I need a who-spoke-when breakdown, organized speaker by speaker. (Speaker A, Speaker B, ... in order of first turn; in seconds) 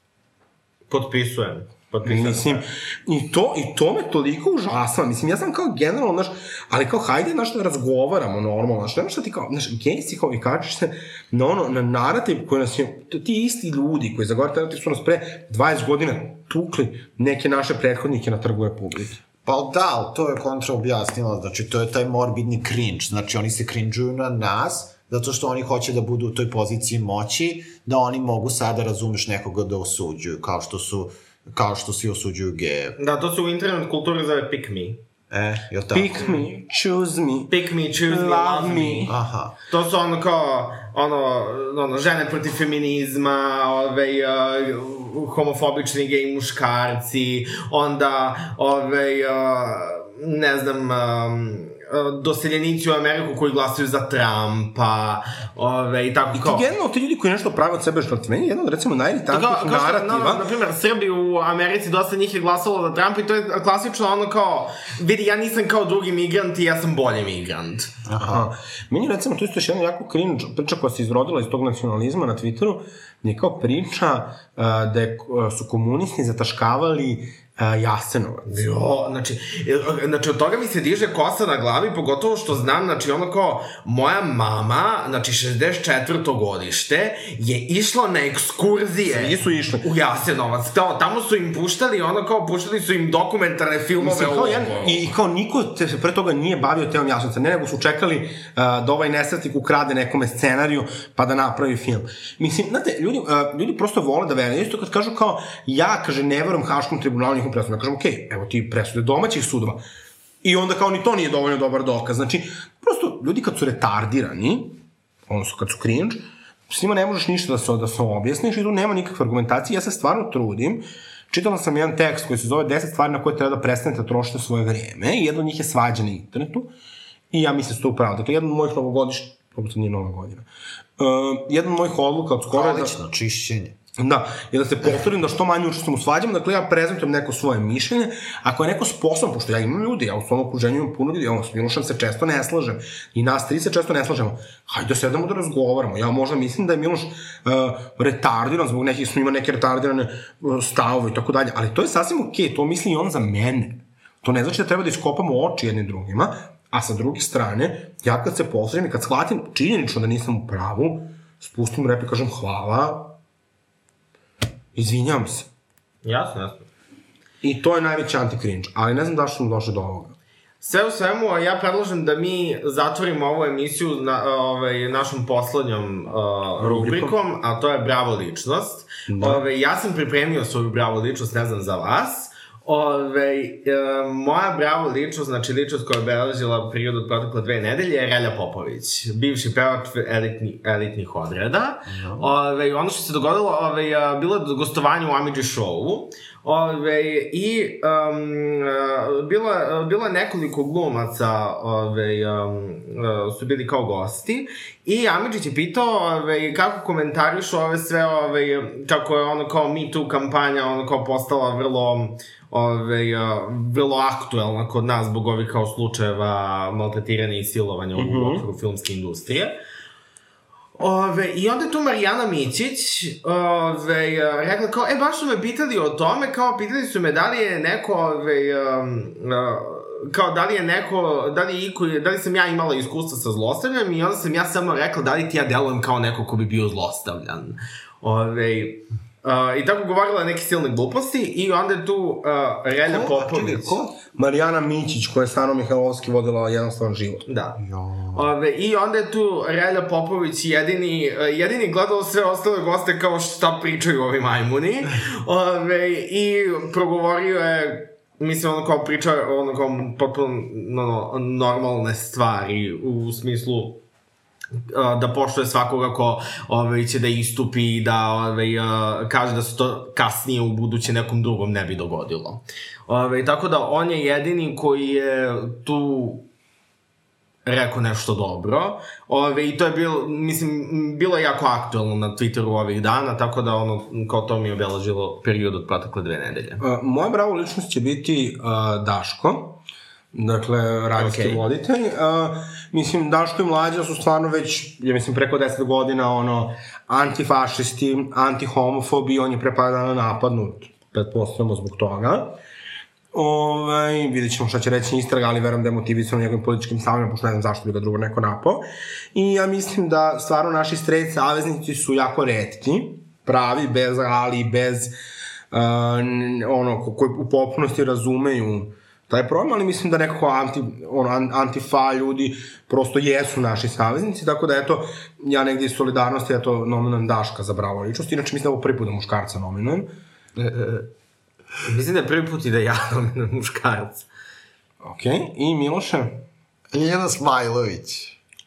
Speaker A: 0.9-2.6, 33.0-35.0, 37.5-39.1, 39.7-56.6, 59.3-67.9, 78.5-95.0, 166.0-166.7, 170.6-219.6, 220.8-243.8, 247.2-247.6, 248.1-263.8, 264.6-276.3, 277.4-286.6, 291.0-291.4, 330.4-330.9, 331.6-334.1
Speaker B: 2.0-19.2, 35.9-37.5, 38.1-39.1, 56.3-60.4, 68.2-78.6, 89.1-89.8, 94.0-109.8, 110.4-126.7, 127.3-130.4, 131.0-132.9, 134.0-163.1, 164.7-165.5, 167.4-170.2, 176.6-177.1, 179.1-179.4, 217.9-218.4, 244.2-247.2, 286.6-289.6, 290.1-302.4, 303.1-314.9, 315.5-329.9, 334.8-336.2
Speaker C: 19.4-33.0, 35.3-36.3, 39.1-39.5, 68.0-68.5, 132.5-133.8, 191.9-192.3, 242.8-244.0, 247.6-248.3, 336.7-338.2